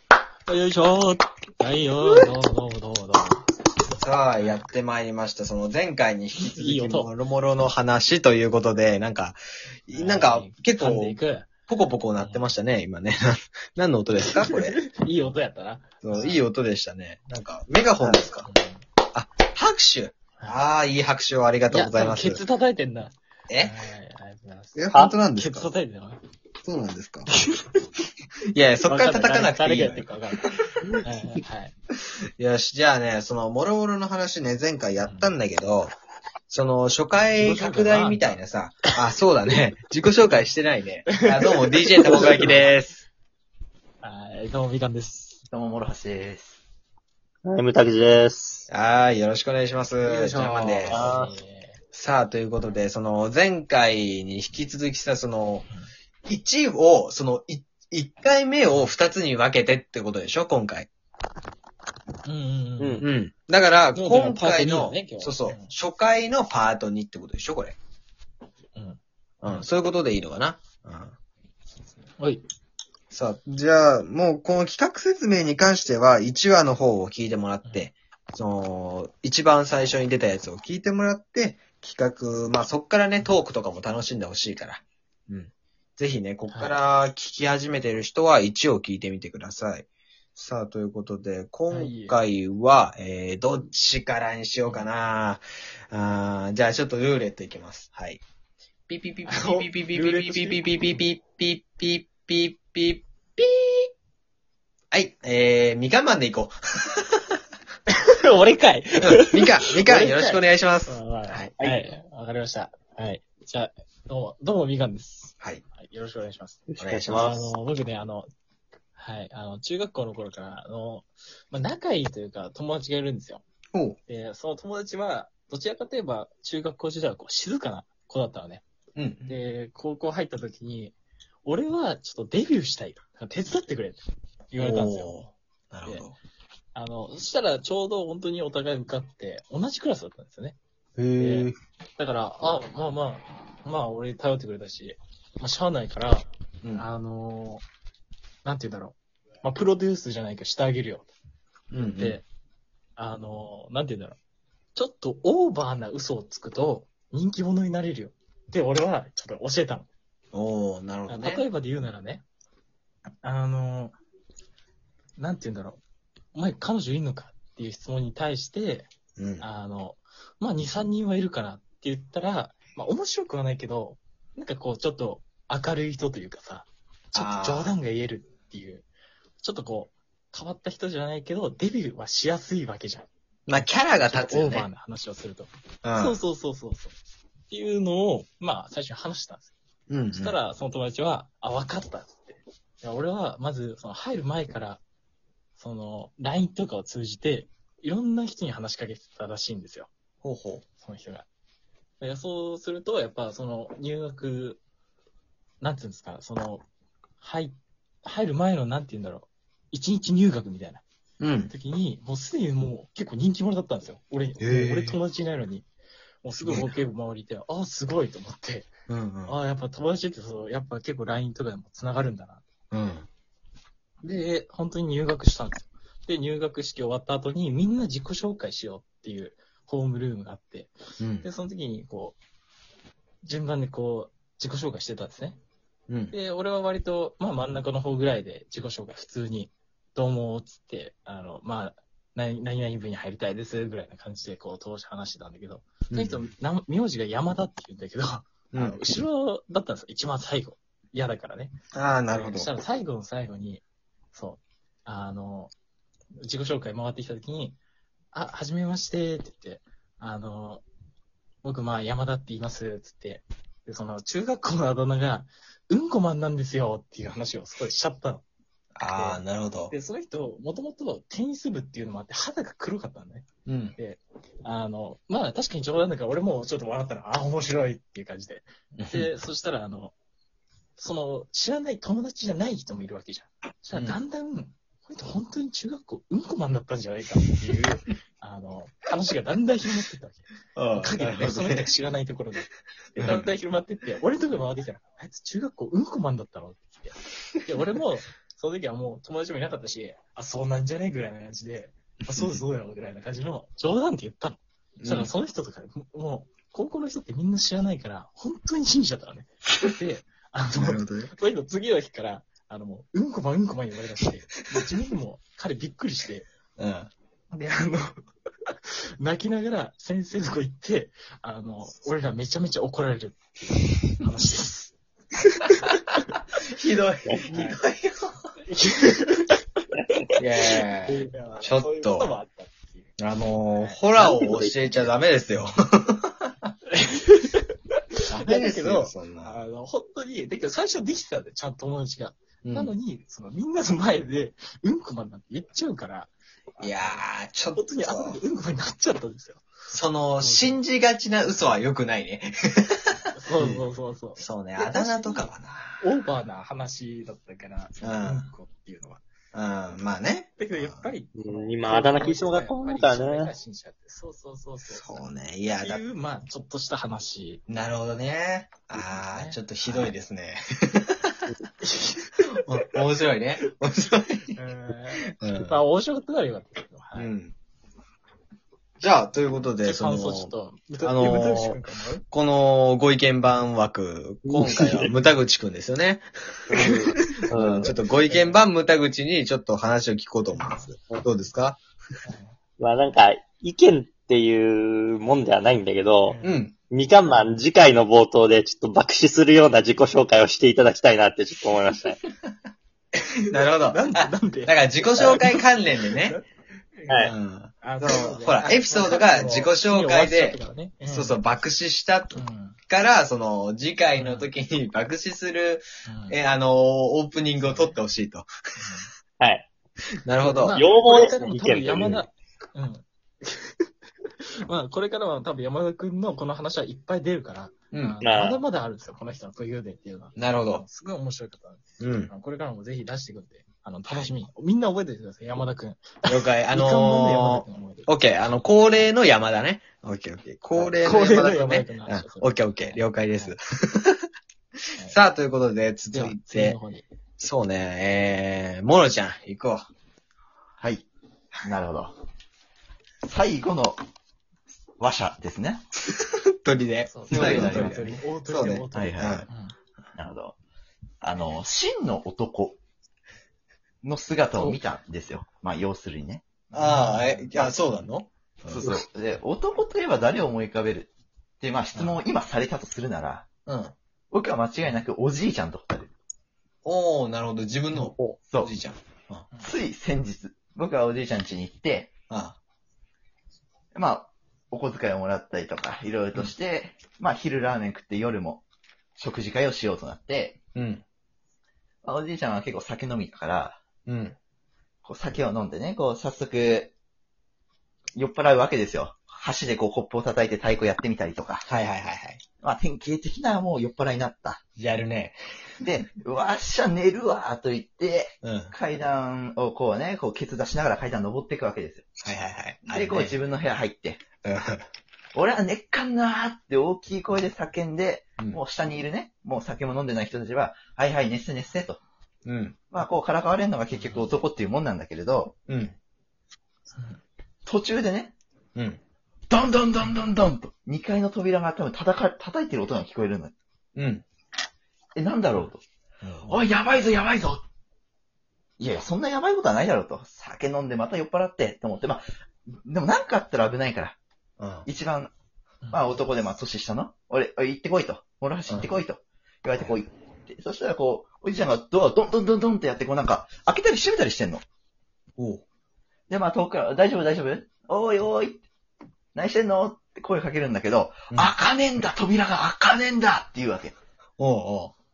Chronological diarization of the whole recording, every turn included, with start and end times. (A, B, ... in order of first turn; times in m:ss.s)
0:00.5-0:03.4 A
0:04.0-0:14.8 B
0:04.4-0:04.6 A
0:06.4-0:07.1 A
0:09.9-0:11.5 A
0:12.2-0:12.5 A
0:14.2-0:16.4 A
0:16.0-0:18.5 B
0:18.0-0:18.8 A
0:19.1-0:22.4 B
0:21.7-0:26.2 A
0:23.5-0:23.8 B
0:24.7-0:25.7 B
0:26.6-0:27.3 B
0:27.4-0:27.8 A
0:28.5-0:30.7 B
0:28.8-0:31.7 A
0:32.4-0:35.9 B
0:35.0-0:35.3 A
0:36.5-0:43.0 B
0:37.4-0:38.4 A
0:41.1-0:42.8 A
0:42.1-0:42.4 C
0:44.0-0:45.4 A
0:45.5-0:46.6 D
0:47.4-0:48.6 C
0:48.7-0:51.1 B
0:50.0-0:51.8 A
0:50.9-0:51.3 C
0:51.9-0:55.7 B
0:56.2-1:00.9 B
1:02.2-1:03.0 A
1:02.8-1:03.0 C
1:03.0-1:07.8 B
1:03.9-1:05.7 A
1:08.7-1:09.7 A
1:09.4-1:11.1 B
1:12.2-1:12.4 A
1:13.1-1:38.2 B
1:17.6-1:17.9 A
1:26.5-1:26.8 A
1:31.7-1:32.2 A
1:38.9-1:43.9 B
1:39.3-1:40.7 A
1:44.9-1:47.2 B
1:47.9-1:58.3 A
1:49.0-1:51.6 B
1:56.7-1:57.4 C
1:56.8-1:57.5 B
1:59.0-2:03.4 A
2:03.7-2:04.0 B
2:04.1-2:08.6 A
2:09.0-2:09.4 B
2:09.2-2:10.9 A
2:11.4-2:15.2 A
2:14.6-2:16.2 B
2:16.7-2:20.6 A
2:21.0-2:21.6 B
2:21.2-2:27.6 A
2:28.4-2:31.1 A
2:31.7-2:32.2 B
2:31.8-2:32.2 A
2:33.0-2:34.2 A
2:34.7-2:39.9 A
2:40.3-2:41.4 B
2:41.1-2:42.2 A
2:43.2-2:44.0 A
2:45.2-2:45.8 A
2:46.3-2:58.8 A
2:49.2-2:49.4 B
2:57.1-2:57.8 B
2:59.4-3:06.9 A
3:03.5-3:04.7 B
3:05.8-3:06.2 B
3:07.5-3:09.5 A
3:09.9-3:10.4 B
3:10.1-3:14.8 A
3:15.6-3:19.9 A
3:20.2-3:20.6 B
3:20.8-3:21.2 A
3:22.0-3:24.6 A
3:25.6-3:26.6 A
3:27.2-3:30.8 A
3:31.2-3:31.5 B
3:31.5-3:35.7 A
3:34.4-3:35.0 B
3:36.2-3:38.7 A
3:36.4-3:36.7 B
3:38.9-3:39.4 B
3:39.2-3:42.4 A
3:42.7-3:43.1 B
3:44.0-3:52.2 A
3:51.0-3:51.2 B
3:53.2-3:55.4 A
3:55.9-3:56.1 B
3:56.1-4:11.5 A
4:05.9-4:06.3 B
4:08.5-4:08.8 B
4:11.7-4:12.5 B
4:12.1-4:15.5 A
4:16.2-4:17.6 A
4:18.1-4:20.6 A
4:21.4-4:28.2 A
4:28.8-4:29.7 B
4:28.9-4:39.9 A
4:33.4-4:33.8 B
4:38.7-4:39.1 B
4:40.8-5:16.3 A
4:50.5-4:51.7 B
4:53.0-4:53.3 B
5:02.1-5:02.4 B
5:04.8-5:05.1 B
5:10.6-5:11.1 B
5:16.6-5:16.9 B
5:17.3-5:17.9 A
5:19.0-5:24.7 A
5:25.5-5:26.0 A
5:26.4-5:28.2 B
5:27.3-5:27.6 A
5:28.5-5:34.1 A
5:30.2-5:32.1 B
5:33.0-5:36.5 B
5:34.0-5:34.9 C
5:36.7-5:37.5 A
5:38.1-5:39.4 B
5:38.2-5:47.0 A
5:42.4-5:42.7 B
5:46.6-5:48.2 B
5:47.5-5:49.5 A
5:49.7-5:55.8 B
5:50.2-5:50.6 A
5:53.1-5:59.0 A
5:57.8-5:58.3 B
5:59.3-6:00.9 B
6:00.4-6:07.4 A
6:01.2-6:03.3 C
6:04.6-6:05.8 B
6:07.5-6:11.2 B
6:08.8-6:09.9 A
6:11.6-6:12.7 A
6:12.4-6:14.4 B
6:14.3-6:17.1 A
6:15.2-6:15.6 B
6:16.9-6:17.3 B
6:18.8-6:20.3 B
6:19.5-6:22.0 A
6:20.8-6:21.6 B
6:22.1-6:31.6 B
6:24.2-6:24.9 C
6:26.5-6:27.8 C
6:27.7-6:28.4 A
6:30.4-6:30.6 A
6:32.0-6:32.3 A
6:32.6-6:36.2 C
6:36.0-6:36.4 A
6:36.2-6:36.7 B
6:36.7-6:42.0 C
6:43.3-6:46.2 B
6:43.3-6:46.2 A
6:45.0-6:45.2 C
6:46.8-6:47.1 A
6:46.9-6:47.1 C
6:47.0-6:58.3 B
6:47.6-6:51.2 A
6:52.1-6:52.6 A
6:54.0-6:54.3 A
6:55.8-6:56.2 A
6:57.4-6:57.8 A
6:58.6-6:58.9 A
6:59.2-6:59.5 C
7:00.0-7:00.6 B
7:00.2-7:03.6 A
7:00.5-7:02.0 C
7:04.5-7:18.9 A
7:07.7-7:08.0 B
7:08.0-7:08.4 C
7:10.2-7:10.6 B
7:11.8-7:12.1 B
7:16.0-7:24.0 B
7:20.5-7:23.3 A
7:24.8-7:26.6 B
7:25.9-7:26.8 A
7:27.2-7:29.7 B
7:30.6-7:30.8 D
7:31.4-7:32.0 D
7:33.0-7:33.8 D
7:34.8-7:35.6 D
7:36.4-7:39.3 B
7:36.9-7:39.5 A
7:37.1-7:37.9 D
7:38.7-7:39.3 D
7:40.0-7:40.4 D
7:41.0-7:42.6 D
7:43.8-7:46.3 D
7:46.5-7:47.7 A
7:46.5-7:48.7 B
7:48.5-7:53.3 D
7:51.7-7:52.0 B
7:53.4-7:53.7 B
7:54.1-7:55.9 D
7:56.6-7:59.3 B
7:57.9-7:58.2 C
7:59.4-8:01.9 D
8:02.1-8:02.4 B
8:03.7-8:08.4 D
8:09.0-8:10.4 D
8:10.5-8:10.8 B
8:11.8-8:13.6 D
8:13.8-8:14.2 B
8:14.8-8:16.7 D
8:18.0-8:21.4 D
8:21.4-8:22.2 B
8:22.4-8:24.4 D
8:24.6-8:25.2 B
8:25.6-8:31.9 D
8:28.2-8:28.5 B
8:32.0-8:33.1 B
8:32.6-8:34.0 D
8:34.2-8:34.6 B
8:35.1-8:41.8 D
8:42.2-8:42.6 B
8:42.7-8:45.3 D
8:43.7-8:44.1 A
8:45.5-8:45.7 B
8:46.7-8:47.0 A
8:47.4-8:48.1 D
8:48.5-8:48.8 B
8:49.3-8:53.3 D
8:53.7-8:54.0 B
8:55.0-8:55.6 D
8:56.0-8:56.4 B
8:56.3-8:57.4 D
8:58.6-9:04.0 D
9:04.4-9:04.7 B
9:04.6-9:05.1 D
9:05.6-9:06.0 A
9:05.7-9:14.4 D
9:15.2-9:15.4 B
9:16.1-9:18.4 D
9:19.1-9:23.8 D
9:24.2-9:24.7 B